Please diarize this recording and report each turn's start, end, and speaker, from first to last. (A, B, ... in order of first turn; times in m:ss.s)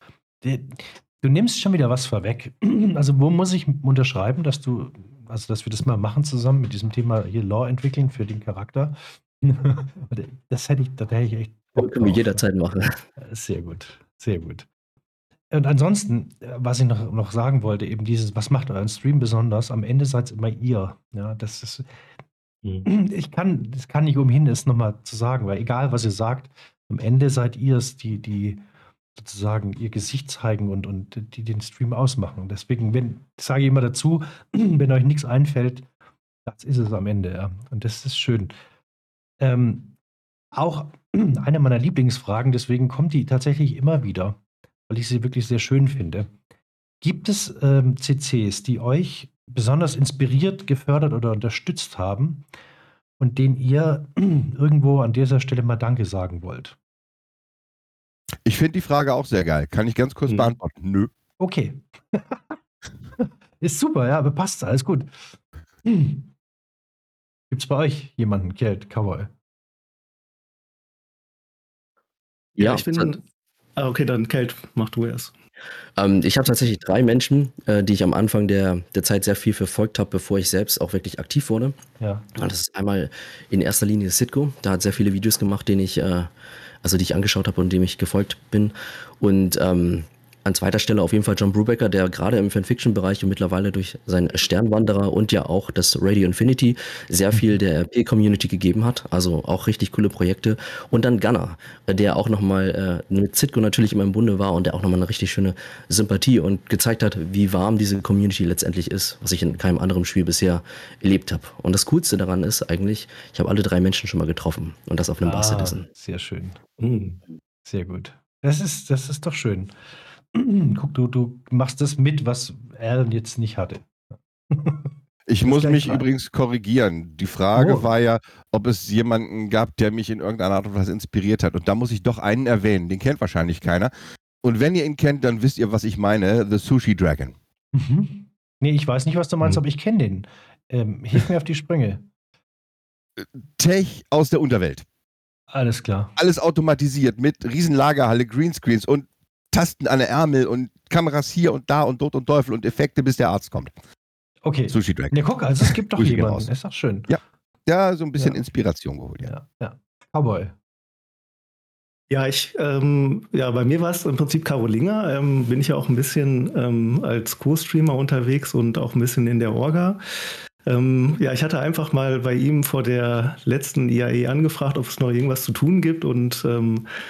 0:00.4-0:12.4 A
0:11.8-0:13.0 B
0:13.2-0:14.7 A
0:15.5-0:21.9 A
0:22.8-0:28.6 A
0:29.2-0:35.9 A
0:36.4-0:38.5 A
0:39.4-0:40.0 A
0:40.5-0:44.4 A
0:44.9-0:46.3 A
0:47.0-0:52.4 A
0:53.2-0:56.8 A
0:58.4-1:01.1 C
1:00.3-1:00.5 D
1:01.4-1:02.6 A
1:03.2-1:05.3 A
1:05.8-1:06.3 A
1:07.5-1:09.3 A
1:12.6-1:13.1 B
1:12.6-1:13.2 D
1:13.8-1:15.3 D
1:16.0-1:21.8 B
1:22.0-1:22.3 A
1:22.4-1:26.3 B
1:26.8-1:55.8 B
1:55.2-1:56.6 A
1:56.8-1:57.2 D
1:57.6-1:59.7 A
2:00.3-2:04.9 A
2:05.3-2:13.9 C
2:05.4-2:06.0 A
2:07.5-2:07.9 A
2:14.4-2:17.3 C
2:17.7-2:22.0 A
2:23.2-2:24.8 C
2:25.5-2:26.1 A
2:26.2-2:33.7 C
2:34.4-2:37.1 A
2:34.7-2:36.5 C
2:37.1-2:39.3 C
2:39.2-2:40.5 A
2:42.1-2:50.0 D
2:50.6-2:56.9 D